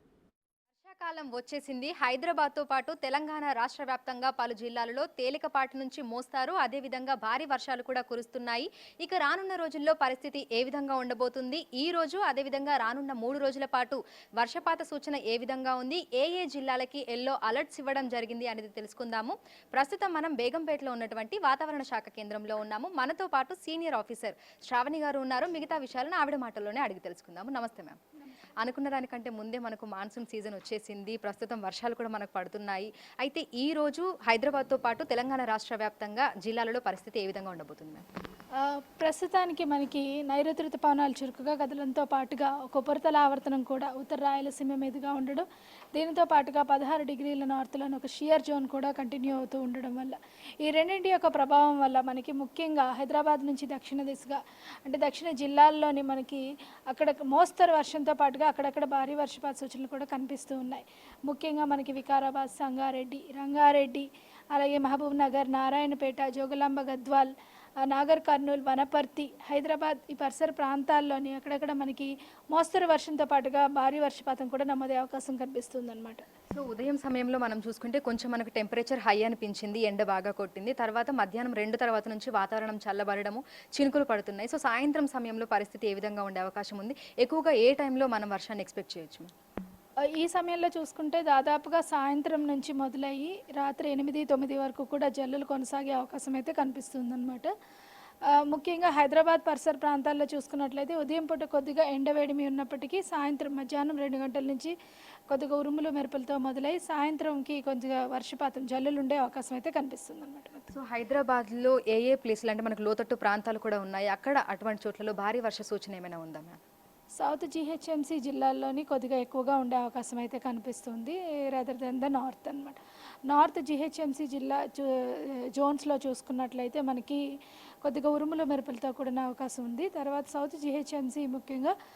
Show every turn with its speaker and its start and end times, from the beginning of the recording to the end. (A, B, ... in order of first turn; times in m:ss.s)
0:00.8-0:28.0 A
0:28.6-0:38.0 A
0:38.5-1:16.2 B
1:16.5-1:29.3 A
1:30.0-1:37.5 B
1:38.2-1:44.7 B
1:45.3-1:50.7 B
1:50.7-1:56.6 A
1:57.1-2:07.2 B
2:07.8-2:11.7 B